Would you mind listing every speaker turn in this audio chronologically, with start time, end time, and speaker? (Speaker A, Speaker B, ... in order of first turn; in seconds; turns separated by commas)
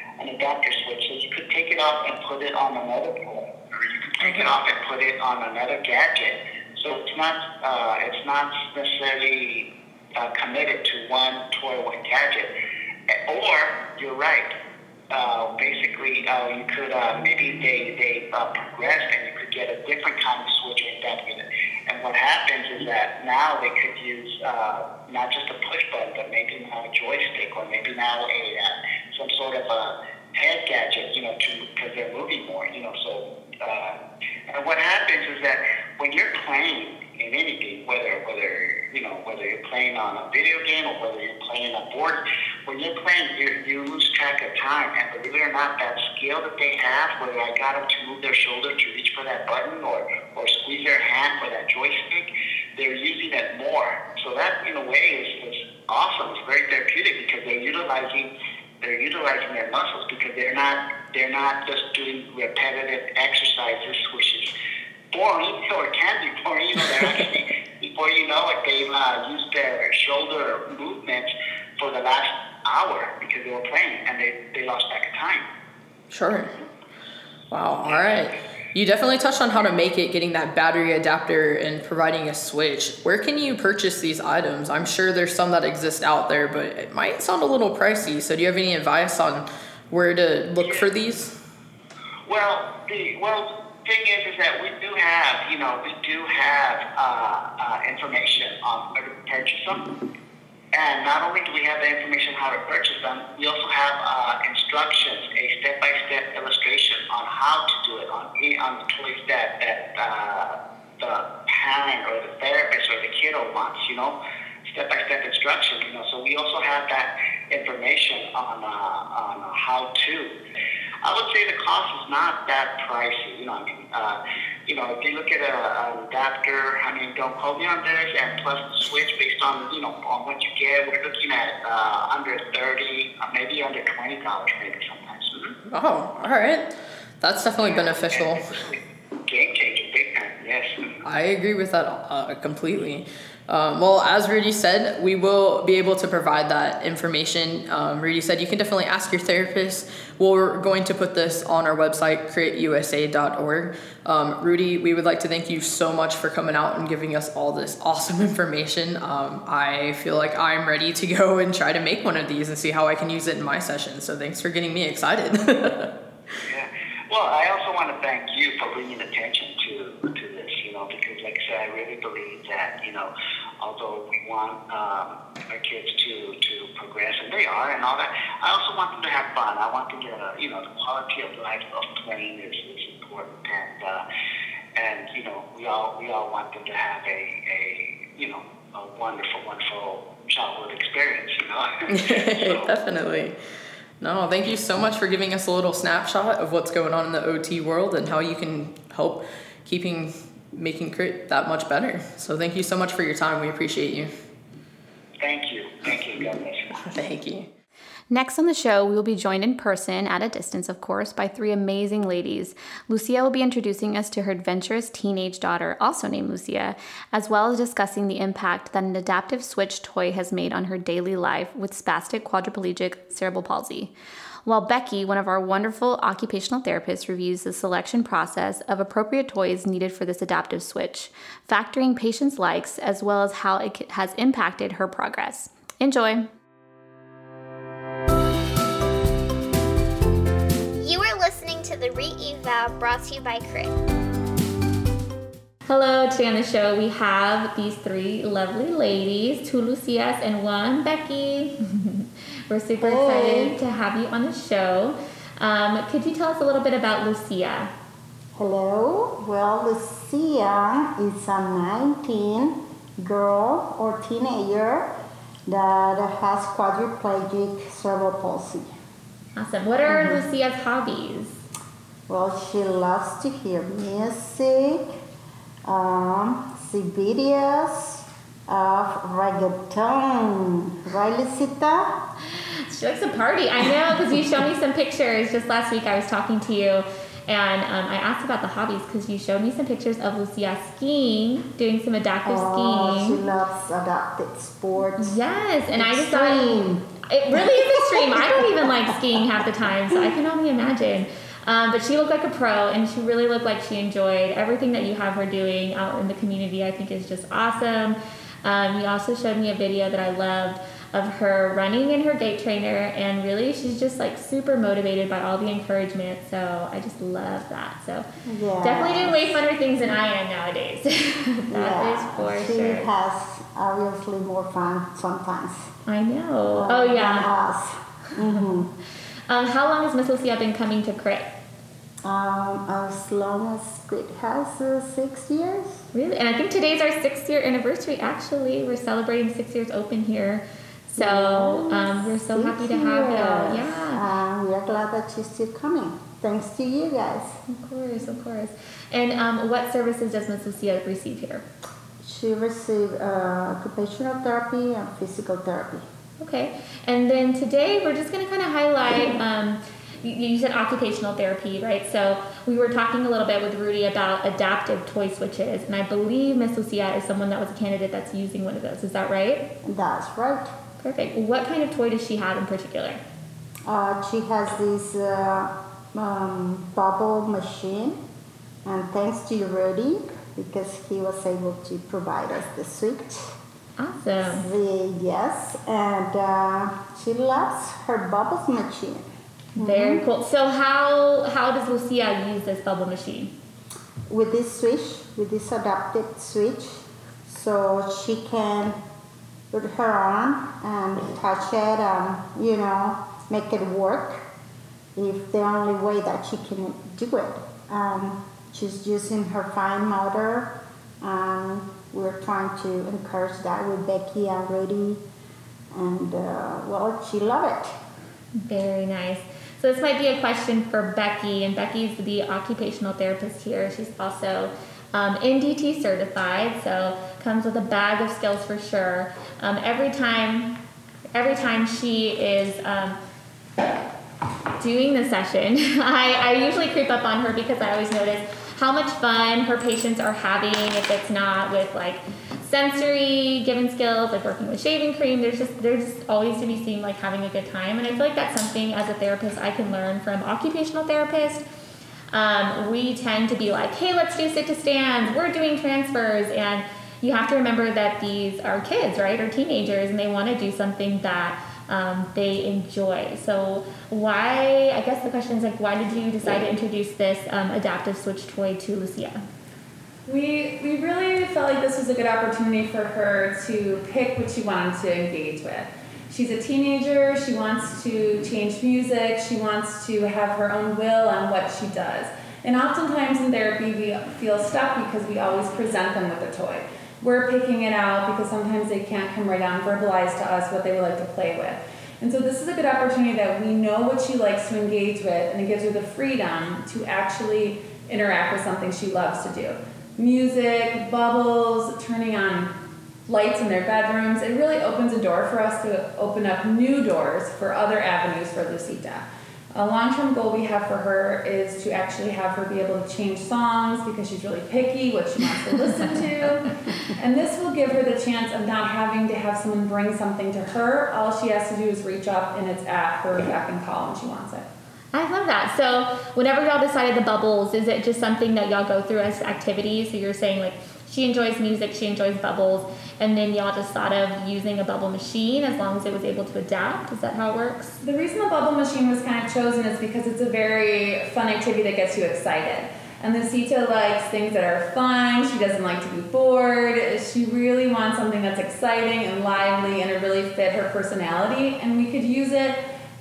Speaker A: 0.2-12.5, Speaker B: 4.2-4.5, Speaker A: 13.3-14.5, Speaker A: 15.1-34.0, Speaker A: 34.5-58.3, Speaker A: 58.8-64.5, Speaker A: 65.1-75.5, Speaker B: 76.1-76.5, Speaker B: 77.5-91.3, Speaker A: 77.8-78.3, Speaker A: 90.6-90.9, Speaker A: 92.2-99.8, Speaker A: 100.7-120.3, Speaker A: 121.0-135.5, Speaker B: 135.7-136.7, Speaker B: 137.2-138.4, Speaker A: 137.6-141.0, Speaker B: 141.0-165.9, Speaker A: 166.5-184.0, Speaker A: 184.8-192.7, Speaker B: 191.9-193.3, Speaker B: 194.0-204.1, Speaker A: 205.2-206.8, Speaker B: 206.8-207.5, Speaker C: 208.1-223.9, Speaker C: 224.4-236.3, Speaker D: 240.8-243.7, Speaker C: 245.7-257.7, Speaker E: 252.8-253.6, Speaker E: 258.4-264.9, Speaker E: 265.5-268.7, Speaker C: 269.4-271.4, Speaker E: 269.9-270.2, Speaker E: 272.1-274.9, Speaker E: 275.6-282.0, Speaker C: 282.6-293.2, Speaker E: 292.2-295.1, Speaker C: 295.0-318.1, Speaker E: 295.7-298.4, Speaker E: 318.2-319.4, Speaker C: 318.6-322.9, Speaker E: 321.5-325.7, Speaker C: 325.9-327.3, Speaker E: 326.5-328.7, Speaker C: 329.3-331.3, Speaker E: 332.0-335.8, Speaker C: 335.9-344.0, Speaker E: 340.9-347.4, Speaker C: 347.5-351.4, Speaker E: 352.0-355.8, Speaker C: 356.2-369.5, Speaker E: 369.6-370.5, Speaker C: 370.8-373.0, Speaker E: 373.6-378.0, Speaker E: 378.6-383.4, Speaker C: 383.8-384.4, Speaker E: 384.2-390.0, Speaker C: 389.6-393.3, Speaker E: 394.1-398.8, Speaker E: 399.5-404.2, Speaker E: 404.9-415.0, Speaker E: 415.7-417.8, Speaker C: 418.4-430.6, Speaker C: 431.1-433.0, Speaker C: 434.6-451.4, Speaker C: 452.1-469.2, Speaker F: 470.1-502.5, Speaker F: 503.1-524.5, Speaker C: 524.9-537.8, Speaker F: 537.8-552.6